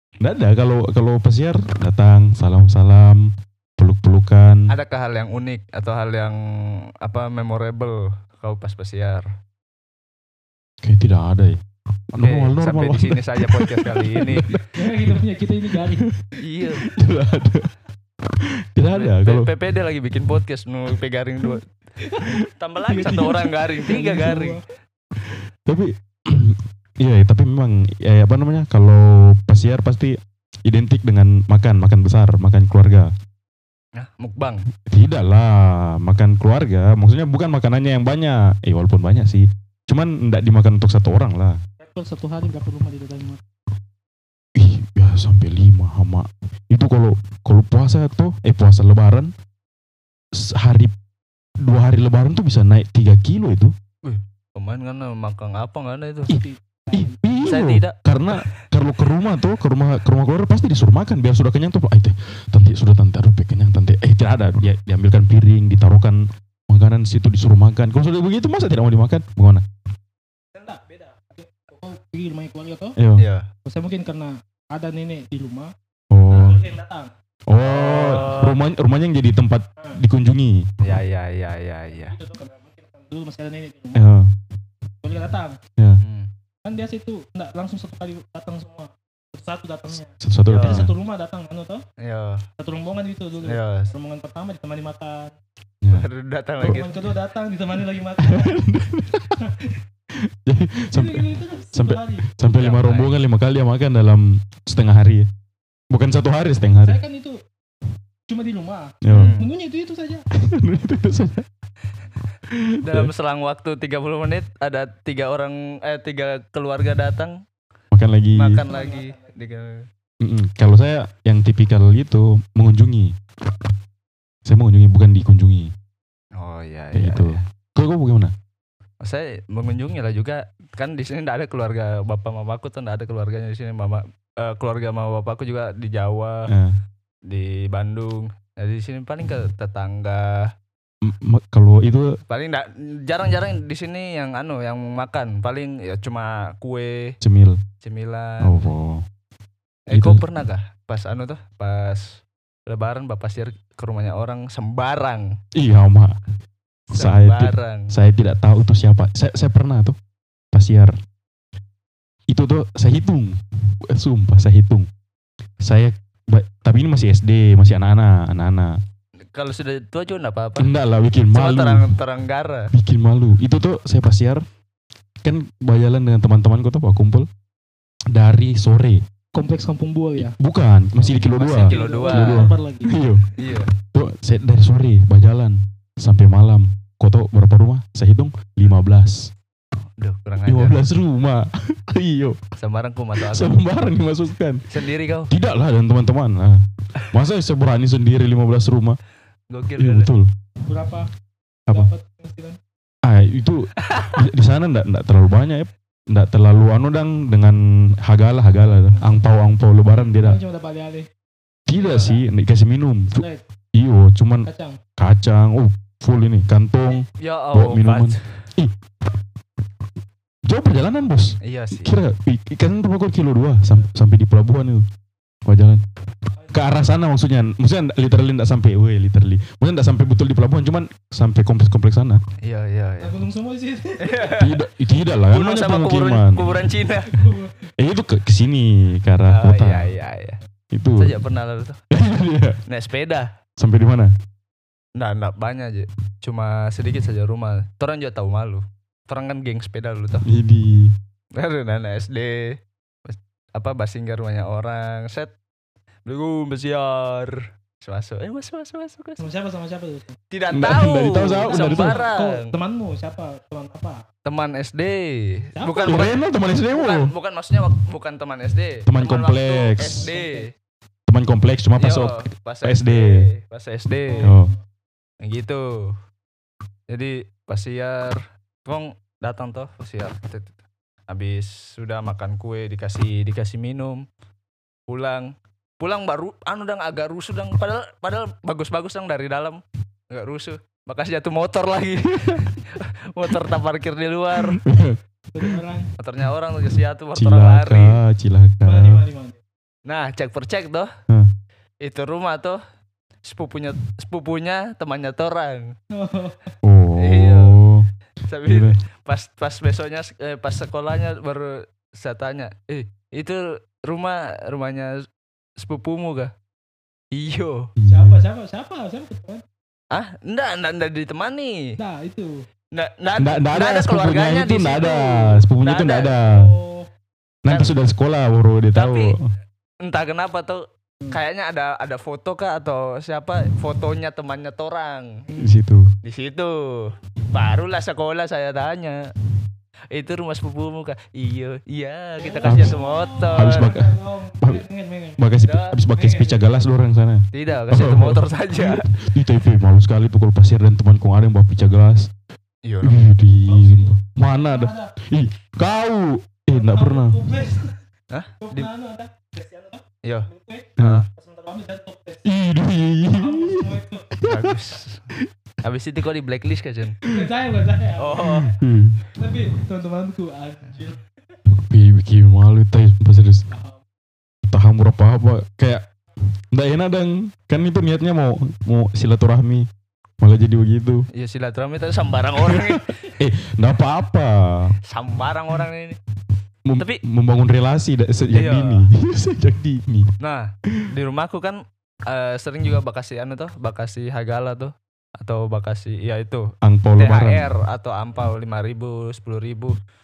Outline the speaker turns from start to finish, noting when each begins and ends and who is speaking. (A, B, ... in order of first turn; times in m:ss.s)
0:00.2-0:04.6 A
0:04.7-0:09.3 B
0:10.8-0:11.6 A
0:12.1-0:16.2 A
0:12.2-0:14.6 B
0:14.7-0:16.1 C
0:16.4-0:16.9 B
0:16.8-0:17.7 A
0:18.2-0:19.5 A
0:18.9-0:21.7 B
0:22.1-0:24.6 C
0:22.6-0:24.6 B
0:25.2-0:33.1 A
0:34.0-0:34.7 B
0:34.9-0:41.6 A
0:41.8-0:43.4 C
0:44.6-0:49.3 A
0:50.3-0:50.9 A
0:51.6-0:53.7 A
0:54.0-0:56.3 B
0:56.3-0:57.5 C
0:56.3-1:09.6 A
0:57.5-0:58.5 B
1:10.5-1:13.0 C
1:13.0-1:13.2 A
1:13.2-1:13.5 B
1:13.7-1:15.7 C
1:16.1-1:16.6 A
1:16.3-1:17.1 C
1:17.5-1:20.7 A
1:17.6-1:18.6 B
1:20.8-1:22.2 B
1:22.1-1:24.1 C
1:23.9-1:24.3 A
1:25.0-1:25.6 C
1:26.0-1:26.3 B
1:26.6-1:31.8 C
1:30.2-1:30.9 A
1:30.5-1:30.9 B
1:32.0-1:32.4 B
1:32.6-1:35.3 C
1:33.4-1:33.9 B
1:35.8-1:36.1 A
1:35.9-1:36.9 B
1:36.7-1:38.6 C
1:38.2-1:39.4 A
1:39.4-1:39.8 C
1:40.1-1:45.3 A
1:40.9-1:42.3 C
1:42.5-1:43.1 B
1:45.9-1:47.0 A
1:46.8-1:47.4 C
1:48.3-1:50.2 C
1:49.0-1:49.4 A
1:49.1-1:49.5 B
1:50.3-1:51.5 A
1:52.5-1:53.1 A
1:52.8-1:57.4 B
1:57.9-1:58.6 A
1:58.3-1:59.9 B
1:58.6-1:59.4 C
2:00.2-2:03.2 A
2:04.4-2:05.7 A
2:06.4-2:07.4 B
2:06.9-2:08.3 A
2:09.0-2:16.5 B
2:16.5-2:16.8 A
2:17.3-2:20.5 B
2:21.0-2:22.2 A
2:22.3-2:27.2 B
2:27.2-2:27.6 A
2:27.8-2:28.7 B
2:28.4-2:29.0 A
2:29.9-2:35.4 B
2:29.9-2:30.2 A
2:35.6-2:36.2 A
2:36.9-2:40.0 A
2:36.9-2:37.9 B
2:40.5-2:41.0 A
2:42.3-2:44.9 A
2:45.6-2:48.8 A
2:49.3-2:50.7 B
2:50.6-2:52.0 A
2:51.3-2:52.7 B
2:52.7-2:54.4 A
2:55.2-2:57.3 A
2:58.1-2:59.0 A
2:59.4-3:00.4 C
3:00.2-3:09.3 A
3:01.0-3:02.9 C
3:01.4-3:02.5 B
3:03.4-3:03.7 B
3:10.0-3:10.8 B
3:10.5-3:12.4 A
3:12.6-3:13.6 B
3:13.2-3:14.6 A
3:14.7-3:15.3 B
3:15.3-3:19.0 A
3:19.5-3:20.1 B
3:19.8-3:20.3 A
3:20.7-3:21.1 C
3:21.7-3:22.6 C
3:23.0-3:30.4 A
3:23.8-3:24.2 B
3:28.8-3:29.2 C
3:30.1-3:31.1 C
3:31.7-3:38.8 A
3:31.8-3:32.2 B
3:33.2-3:33.4 C
3:34.5-3:34.8 C
3:37.2-3:38.4 B
3:40.4-3:44.8 A
3:41.4-3:42.0 B
3:45.5-3:45.8 A
3:46.4-3:46.7 C
3:46.5-3:52.2 A
3:52.4-3:53.2 B
3:53.0-3:54.3 C
3:54.0-3:54.5 B
3:54.4-3:56.6 A
3:55.3-3:57.2 B
3:57.1-3:57.6 C
3:57.8-4:00.0 A
3:59.3-4:00.4 B
4:00.7-4:01.2 A
4:01.0-4:01.8 B
4:01.9-4:02.6 A
4:02.7-4:03.3 B
4:03.6-4:04.1 A
4:05.0-4:10.3 B
4:10.2-4:11.0 A
4:11.4-4:15.3 B
4:16.0-4:19.3 B
4:19.2-4:20.2 C
4:20.3-4:22.5 B
4:20.5-4:22.0 A
4:21.5-4:24.0 C
4:24.2-4:30.5 B
4:25.6-4:26.1 C
4:25.9-4:27.1 A
4:28.9-4:30.1 A
4:30.0-4:30.5 C
4:31.1-4:33.3 A
4:31.8-4:34.3 B
4:34.1-4:34.5 C
4:34.2-4:34.5 A
4:35.2-4:36.0 B
4:36.9-4:40.6 B
4:41.1-4:44.1 B
4:44.9-4:54.6 B
4:52.2-4:52.6 A
4:54.4-4:55.6 A
4:55.3-4:55.9 C
4:56.0-4:58.0 B
4:57.2-4:59.0 A
4:58.6-4:59.4 C
4:59.9-5:00.9 B
5:01.8-5:02.6 B
5:03.2-5:05.8 B
5:05.9-5:06.5 C
5:06.6-5:07.9 A
5:07.0-5:07.6 B
5:08.2-5:16.3 B
5:08.4-5:08.8 A
5:17.1-5:17.7 B
5:17.8-5:18.2 A
5:17.9-5:19.4 C
5:19.9-5:21.8 B
5:21.8-5:22.4 C
5:22.7-5:26.2 B
5:23.2-5:26.5 A
5:26.2-5:26.9 C
5:27.4-5:29.3 A
5:27.5-5:27.8 B
5:28.7-5:29.1 B
5:29.8-5:35.2 B
5:35.3-5:35.6 C
5:35.4-5:35.9 A
5:36.0-5:39.0 B
5:39.9-5:43.8 B
5:42.2-5:46.6 C
5:42.4-5:42.8 A
5:43.3-5:44.6 A
5:45.2-5:52.1 A
5:45.4-5:45.8 B
5:47.3-5:48.9 B
5:52.6-5:53.1 B
5:52.8-5:57.2 A
5:53.4-5:54.9 C
5:56.5-5:57.8 C
5:58.1-5:58.7 B
5:58.4-6:02.4 C
6:00.8-6:01.0 A
6:00.8-6:01.1 B
6:02.2-6:05.3 A
6:03.1-6:04.1 C
6:04.2-6:05.1 B
6:05.6-6:07.0 B
6:07.1-6:08.3 C
6:08.0-6:08.5 B
6:08.2-6:09.0 A
6:09.2-6:11.1 C
6:11.5-6:13.5 A
6:13.5-6:13.8 C
6:14.5-6:15.9 A
6:16.5-6:19.7 A
6:20.2-6:21.1 A
6:21.1-6:23.0 B
6:22.4-6:24.8 A
6:24.9-6:26.0 B
6:26.6-6:30.1 A
6:28.3-6:28.9 B
6:30.2-6:39.8 B
6:36.6-6:37.6 A